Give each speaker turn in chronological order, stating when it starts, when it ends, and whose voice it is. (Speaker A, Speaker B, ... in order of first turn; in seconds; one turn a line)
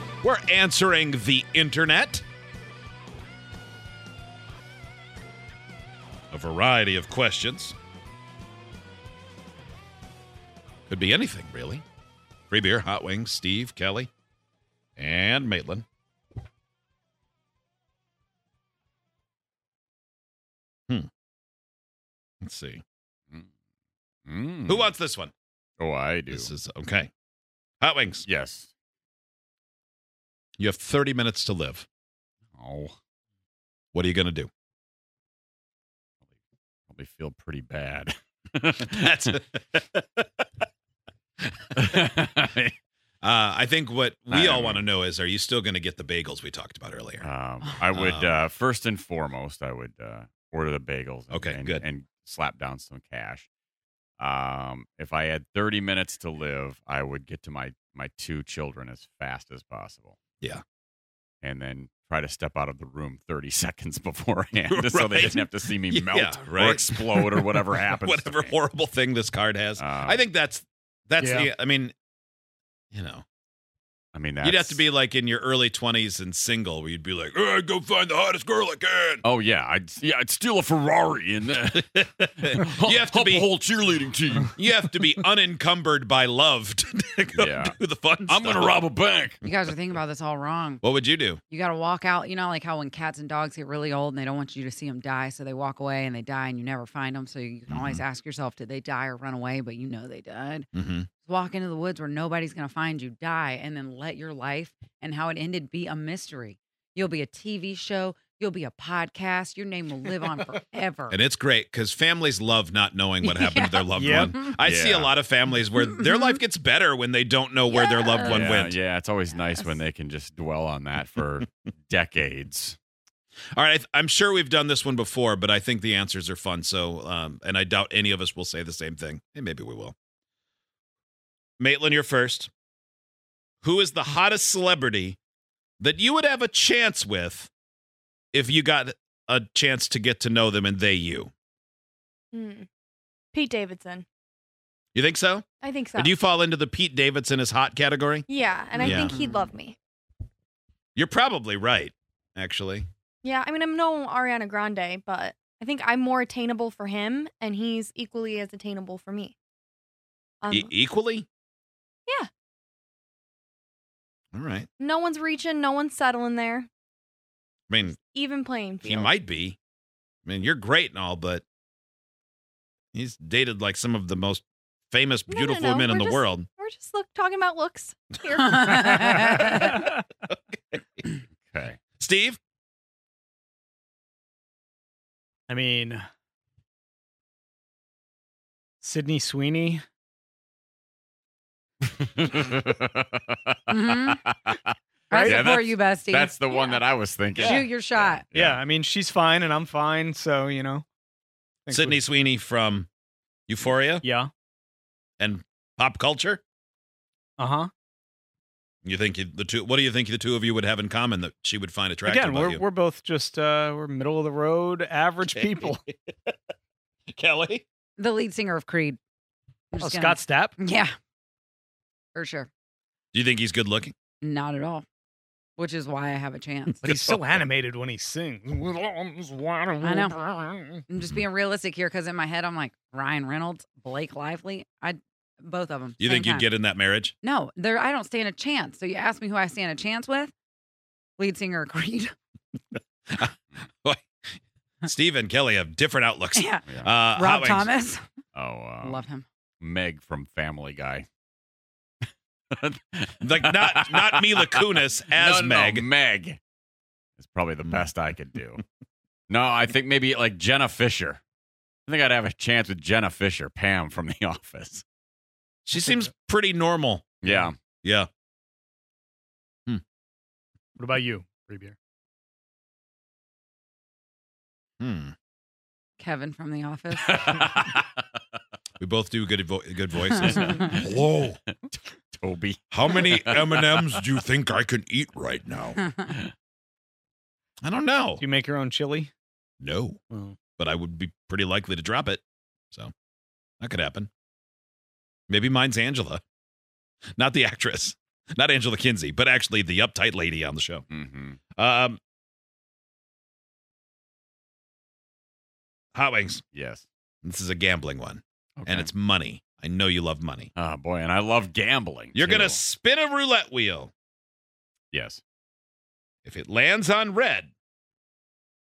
Speaker A: 0.2-2.2
Speaker A: 6.3-7.7
Speaker A: 10.9-11.8
Speaker A: 12.5-14.1
Speaker A: 15.0-15.8
Speaker A: 22.4-22.8
Speaker B: 24.2-24.9
Speaker A: 24.7-25.3
Speaker B: 25.8-26.5
Speaker A: 26.3-27.1
Speaker A: 27.8-28.2
Speaker B: 28.2-28.7
Speaker A: 30.6-31.9
Speaker B: 32.6-33.0
Speaker A: 33.9-34.5
Speaker B: 36.9-39.3
Speaker A: 38.9-40.2
Speaker B: 41.8-42.5
Speaker A: 43.2-47.3
Speaker B: 44.3-44.8
Speaker B: 47.2-53.5
Speaker A: 47.9-48.3
Speaker A: 51.3-51.8
Speaker B: 54.2-60.1
Speaker B: 61.4-68.6
Speaker A: 64.7-71.9
Speaker B: 69.8-70.2
Speaker C: 71.2-71.5
Speaker A: 72.9-73.2
Speaker B: 74.1-74.8
Speaker A: 74.4-79.2
Speaker B: 79.2-84.8
Speaker A: 82.2-83.5
Speaker A: 84.5-88.8
Speaker B: 87.4-87.7
Speaker B: 88.3-89.7
Speaker D: 89.4-90.8
Speaker A: 90.8-91.4
Speaker D: 91.5-100.7
Speaker A: 97.7-98.0
Speaker A: 100.7-101.1
Speaker D: 101.2-111.2
Speaker A: 111.1-118.8
Speaker D: 113.2-113.8
Speaker C: 113.9-114.4
Speaker B: 114.6-115.1
Speaker E: 117.7-118.2
Speaker B: 118.2-122.8
Speaker A: 123.5-129.9
Speaker A: 131.6-132.5
Speaker A: 133.6-135.2
Speaker A: 135.8-137.5
Speaker A: 138.3-141.3
Speaker E: 142.3-142.7
Speaker E: 143.3-144.1
Speaker A: 144.9-148.2
Speaker E: 145.6-146.1
Speaker E: 148.3-149.8
Speaker A: 148.8-149.2
Speaker D: 148.8-149.5
Speaker A: 150.9-152.9
Speaker E: 153.2-159.3
Speaker E: 160.4-160.7
Speaker A: 160.5-161.3
Speaker A: 164.3-164.7
Speaker E: 164.8-166.7
Speaker A: 167.7-167.9
Speaker E: 167.8-169.2
Speaker A: 168.8-169.6
Speaker A: 170.2-171.4
Speaker A: 172.9-176.5
Speaker E: 175.3-179.6
Speaker D: 178.4-179.9
Speaker C: 179.2-179.9
Speaker A: 180.3-180.8
Speaker B: 181.5-181.8
Speaker A: 182.0-182.4
Speaker C: 185.5-186.1
Speaker C: 188.8-189.8
Speaker B: 191.9-198.6
Speaker D: 193.7-194.2
Speaker C: 195.1-195.4
Speaker D: 195.1-196.8
Speaker A: 197.3-197.6
Speaker D: 197.3-198.2
Speaker C: 198.3-200.8
Speaker C: 201.7-202.0
Speaker A: 201.7-202.9
Speaker A: 203.5-204.0
Speaker C: 204.0-204.3
Speaker A: 205.2-206.4
Speaker C: 207.4-207.7
Speaker A: 208.8-212.6
Speaker C: 212.0-215.8
Speaker A: 215.3-216.3
Speaker A: 217.1-217.6
Speaker D: 218.0-219.0
Speaker D: 219.7-220.9
Speaker C: 219.8-220.5
Speaker D: 222.1-222.5
Speaker A: 223.1-223.9
Speaker D: 224.2-224.8
Speaker D: 225.6-226.9
Speaker C: 226.8-230.8
Speaker D: 229.8-230.2
Speaker D: 230.9-236.5
Speaker A: 236.0-237.1
Speaker D: 237.2-240.3
Speaker D: 241.2-242.1
Speaker A: 244.8-247.7
Speaker D: 246.3-248.0
Speaker B: 248.3-249.0
Speaker D: 248.8-249.2
Speaker B: 249.6-251.1
Speaker B: 252.5-256.4
Speaker A: 253.2-255.9
Speaker B: 257.2-258.6
Speaker B: 259.3-261.2
Speaker B: 261.9-264.8
Speaker A: 265.6-267.2
Speaker B: 267.2-267.6
Speaker A: 267.8-268.1
Speaker C: 270.8-271.8
Speaker A: 274.8-275.1
Speaker D: 276.0-277.1
Speaker B: 277.0-278.0
Speaker A: 278.8-281.4
Speaker B: 280.1-281.0
Speaker B: 282.1-284.0
Speaker A: 282.7-285.8
Speaker A: 287.6-288.2
Speaker C: 288.2-289.1
Speaker A: 289.6-290.0
Speaker C: 290.1-290.4
Speaker A: 290.5-292.9
Speaker A: 293.6-294.1
Speaker A: 295.3-296.2
Speaker A: 297.2-300.8
Speaker B: 300.9-301.4
Speaker A: 301.6-302.0
Speaker A: 305.9-306.4
Speaker B: 306.5-306.9
Speaker A: 307.2-310.5
Speaker B: 308.6-308.9
Speaker B: 310.6-312.6
Speaker A: 312.1-313.9
Speaker B: 314.9-315.2
Speaker A: 316.2-317.5